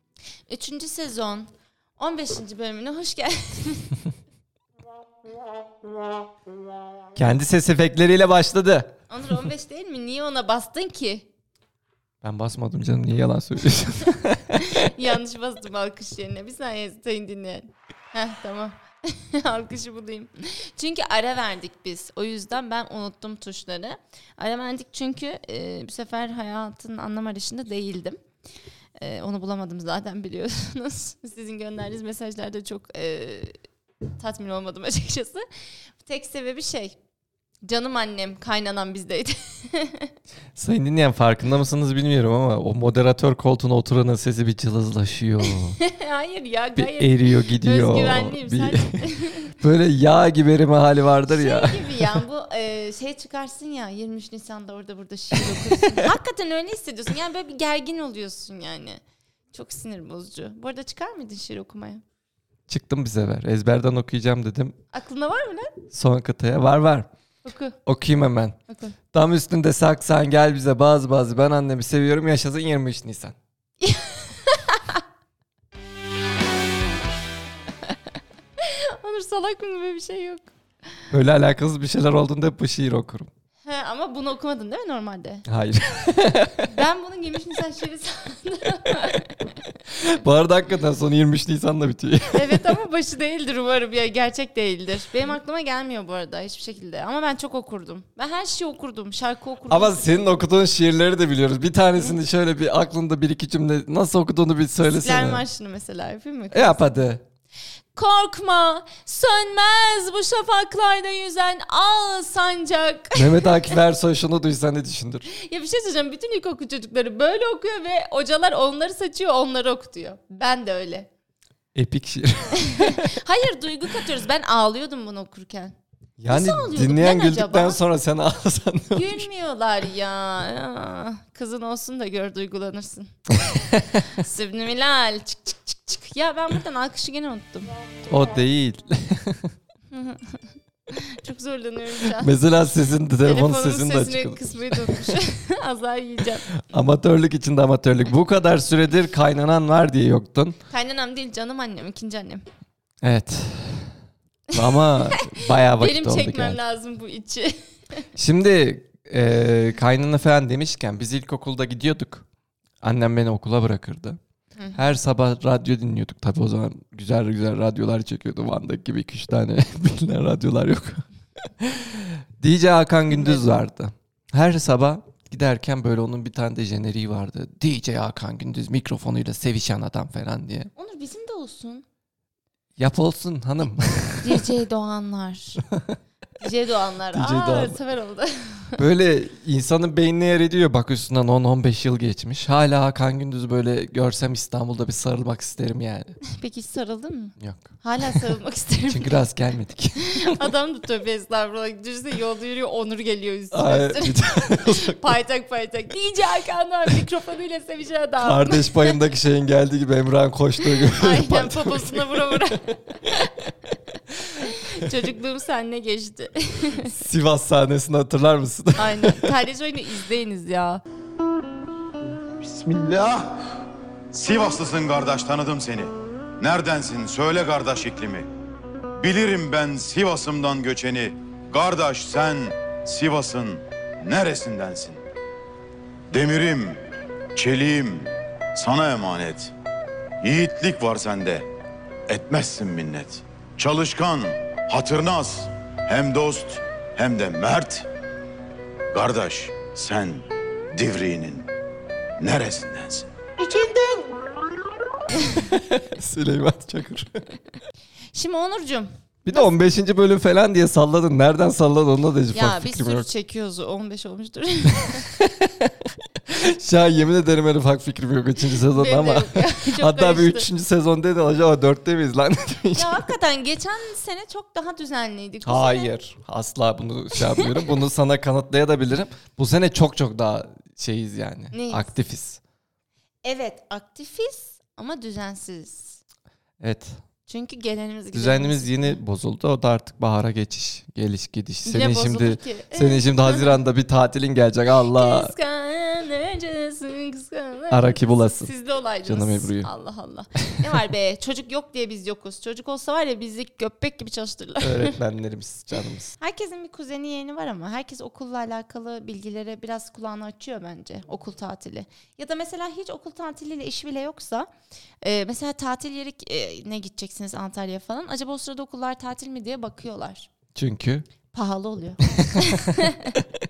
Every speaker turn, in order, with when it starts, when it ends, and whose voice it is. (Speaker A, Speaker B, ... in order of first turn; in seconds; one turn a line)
Speaker A: 0.5-4.0
Speaker B: 7.2-8.9
Speaker A: 9.1-11.3
Speaker B: 12.2-14.9
Speaker A: 14.5-28.2
Speaker A: 29.0-33.6
Speaker A: 34.2-35.5
Speaker A: 36.0-37.0
Speaker A: 37.6-40.1
Speaker B: 40.5-45.8
Speaker A: 45.8-49.6
Speaker B: 46.8-52.2
Speaker A: 51.3-59.0
Speaker B: 55.3-56.1
Speaker A: 59.5-62.0
Speaker B: 62.7-64.8
Speaker A: 64.9-65.8
Speaker B: 65.9-67.1
Speaker A: 67.5-67.8
Speaker B: 67.8-68.6
Speaker A: 68.7-69.0
Speaker B: 69.1-73.4
Speaker A: 73.8-75.0
Speaker A: 78.6-80.5
Speaker B: 81.1-83.3
Speaker A: 83.6-85.5
Speaker B: 85.5-86.8
Speaker A: 86.7-89.4
Speaker B: 89.9-92.7
Speaker A: 92.3-100.4
Speaker B: 99.7-105.4
Speaker A: 104.8-107.0
Speaker B: 106.5-107.2
Speaker A: 108.0-113.5
Speaker B: 113.2-115.3
Speaker A: 115.3-121.1
Speaker B: 121.7-123.1
Speaker A: 122.5-125.7
Speaker B: 126.2-129.3
Speaker A: 126.3-127.8
Speaker A: 128.9-133.2
Speaker B: 133.5-134.1
Speaker A: 134.0-137.7
Speaker B: 138.1-139.5
Speaker A: 139.9-142.3
Speaker B: 142.1-145.2
Speaker A: 143.2-146.5
Speaker B: 146.6-150.6
Speaker A: 150.7-152.4
Speaker B: 153.0-154.0
Speaker B: 154.5-156.6
Speaker A: 154.5-158.1
Speaker B: 158.2-162.3
Speaker B: 162.8-164.2
Speaker A: 164.6-164.8
Speaker B: 164.7-180.7
Speaker A: 173.1-173.5
Speaker A: 180.8-181.9
Speaker B: 182.8-184.5
Speaker A: 184.2-185.6
Speaker B: 185.7-186.0
Speaker A: 186.4-188.8
Speaker B: 187.1-187.8
Speaker B: 188.8-196.2
Speaker A: 196.2-199.2
Speaker B: 197.4-198.2
Speaker B: 198.9-200.4
Speaker A: 200.0-209.0
Speaker B: 203.5-205.1
Speaker B: 208.2-212.5
Speaker A: 210.7-217.0
Speaker B: 216.8-219.3
Speaker A: 218.8-220.8
Speaker C: 222.4-223.3
Speaker C: 224.1-228.3
Speaker C: 229.0-235.0
Speaker C: 236.1-236.8
Speaker C: 237.4-239.5
Speaker C: 240.2-241.5
Speaker C: 242.1-247.9
Speaker C: 248.9-251.5
Speaker C: 252.2-253.1
Speaker B: 255.2-257.3
Speaker A: 258.1-259.5
Speaker B: 259.2-263.1
Speaker A: 262.3-265.3
Speaker B: 264.9-265.5
Speaker B: 266.3-273.1
Speaker A: 268.7-270.5
Speaker A: 272.7-275.9
Speaker B: 275.4-282.4
Speaker A: 281.5-281.9
Speaker A: 283.2-286.0
Speaker B: 286.6-287.0
Speaker A: 287.3-289.0
Speaker B: 288.1-295.3
Speaker A: 291.6-293.6
Speaker A: 294.9-305.0
Speaker B: 297.7-298.5
Speaker B: 299.0-299.7
Speaker B: 304.6-306.1
Speaker A: 306.2-314.5
Speaker A: 315.0-320.3
Speaker B: 320.6-321.1
Speaker A: 321.3-323.2
Speaker B: 322.2-322.8